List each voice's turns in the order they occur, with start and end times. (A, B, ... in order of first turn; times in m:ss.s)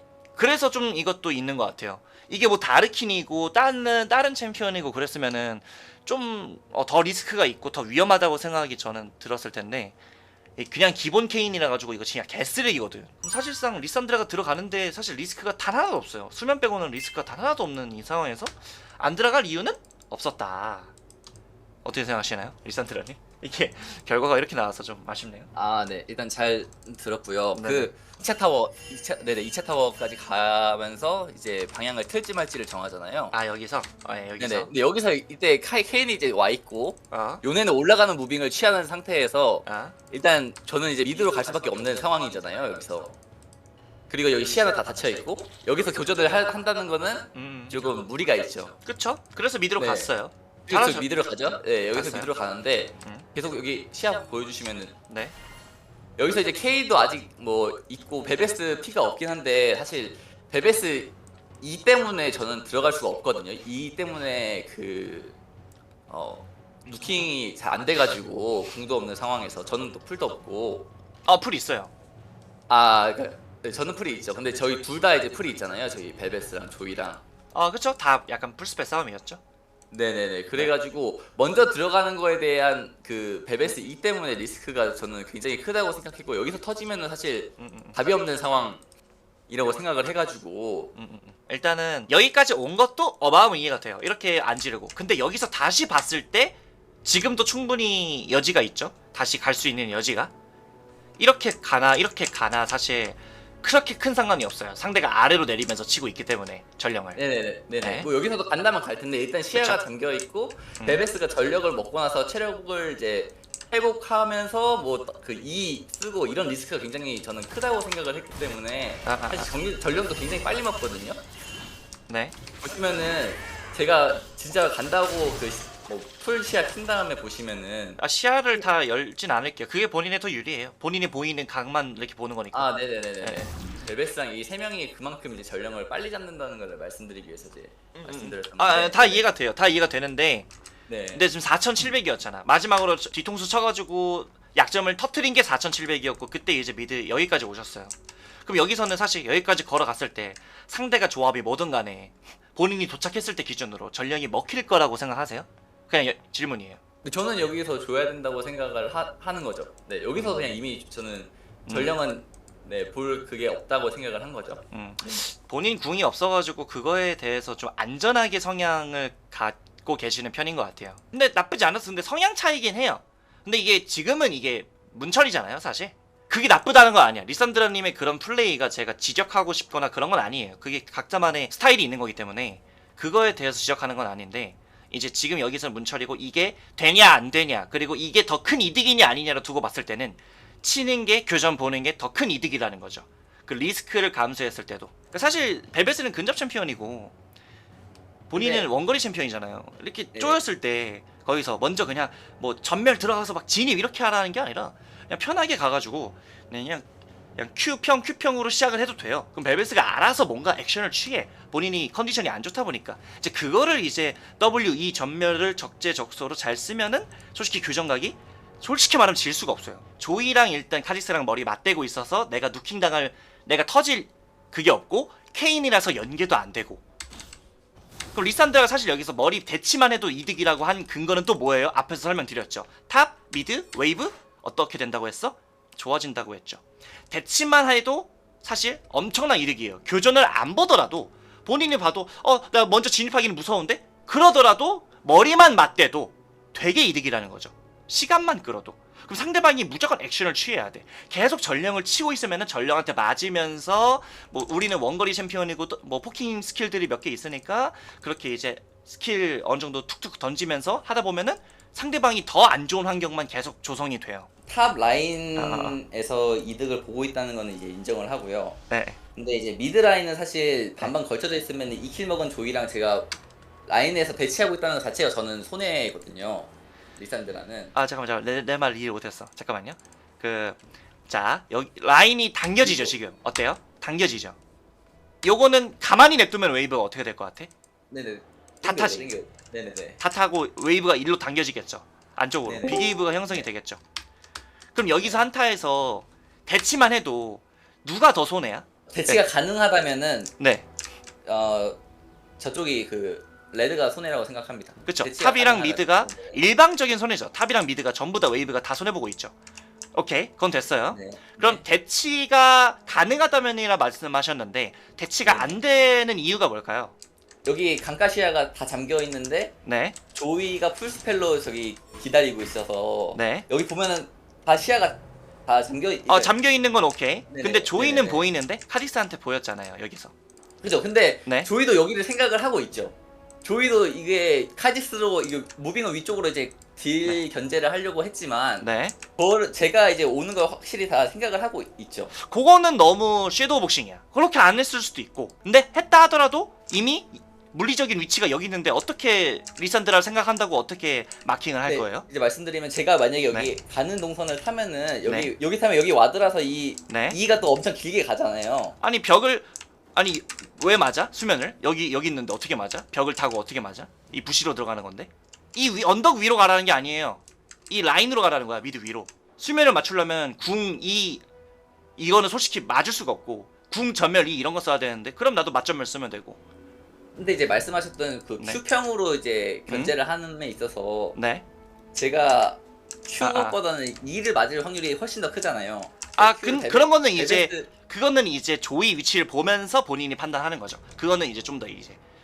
0:00.4-0:10.0 A
0:10.6-0:20.9 A
0:21.8-0:25.5 A
0:25.6-0:33.4 B
0:27.6-0:27.9 A
0:33.3-0:34.7 A
0:34.4-0:43.2 B
0:37.1-0:37.4 A
0:39.6-0:39.9 A
0:44.1-0:48.8 B
0:47.3-0:47.8 A
0:48.9-0:51.2 A
0:49.8-0:50.1 B
0:50.7-0:54.9 B
0:51.9-0:52.3 A
0:55.1-0:55.4 A
0:56.2-1:05.4 B
1:06.1-1:10.9 B
1:06.9-1:07.3 A
1:11.3-1:11.9 A
1:12.7-1:17.2 B
1:17.5-1:19.4 A
1:19.9-1:28.8 B
1:27.6-1:28.0 A
1:29.5-1:30.9 B
1:31.0-1:40.3 A
1:41.2-1:47.2 A
1:47.2-2:01.2 B
1:47.8-1:48.1 A
1:49.5-1:49.8 A
1:50.8-1:51.0 A
1:59.0-1:59.5 A
2:02.1-2:02.4 A
2:02.6-2:08.0 B
2:08.0-2:13.5 A
2:12.5-2:19.3 B
2:18.0-2:20.5 A
2:20.9-2:21.2 B
2:21.1-2:36.8 A
2:37.0-2:44.6 B
2:40.2-2:40.5 A
2:41.7-2:42.0 A
2:44.7-3:17.1 A
3:18.3-3:26.8 A
3:18.3-3:18.7 B
3:20.1-3:20.4 B
3:27.4-3:46.8 A
3:48.1-4:24.3 A
4:24.5-4:28.6 B
4:25.4-4:25.8 A
4:28.7-4:29.0 A
4:29.2-4:33.1 B
4:33.7-4:37.7 B
4:37.7-4:44.4 A
4:42.6-4:43.0 B
4:45.2-4:47.5 A
4:47.9-4:50.0 B
4:48.6-4:49.1 A
4:50.0-4:53.8 A
4:52.4-4:53.5 B
4:54.7-4:59.2 A
4:58.9-5:00.3 B
5:00.4-5:00.6 A
5:01.2-5:01.8 B
5:02.4-5:06.4 B
5:04.9-5:09.3 A
5:09.9-5:16.9 A
5:10.9-5:11.6 B
5:15.2-5:15.6 B
5:17.4-5:19.6 B
5:19.6-5:20.0 A
5:20.1-5:26.3 B
5:23.2-5:23.5 A
5:26.1-5:30.1 A
5:27.3-5:28.3 B
5:30.6-5:42.1 B
5:38.6-5:39.0 A
5:42.1-5:52.1 A
5:51.6-5:58.8 B
5:55.1-5:55.3 A
5:56.9-5:57.2 A
5:58.8-6:11.2 A
6:12.0-6:16.4 A
6:17.2-6:21.2 B
6:19.7-6:19.9 A
6:21.2-6:21.4 A
6:21.9-6:27.7 B
6:23.2-6:23.6 A
6:26.2-6:32.0 A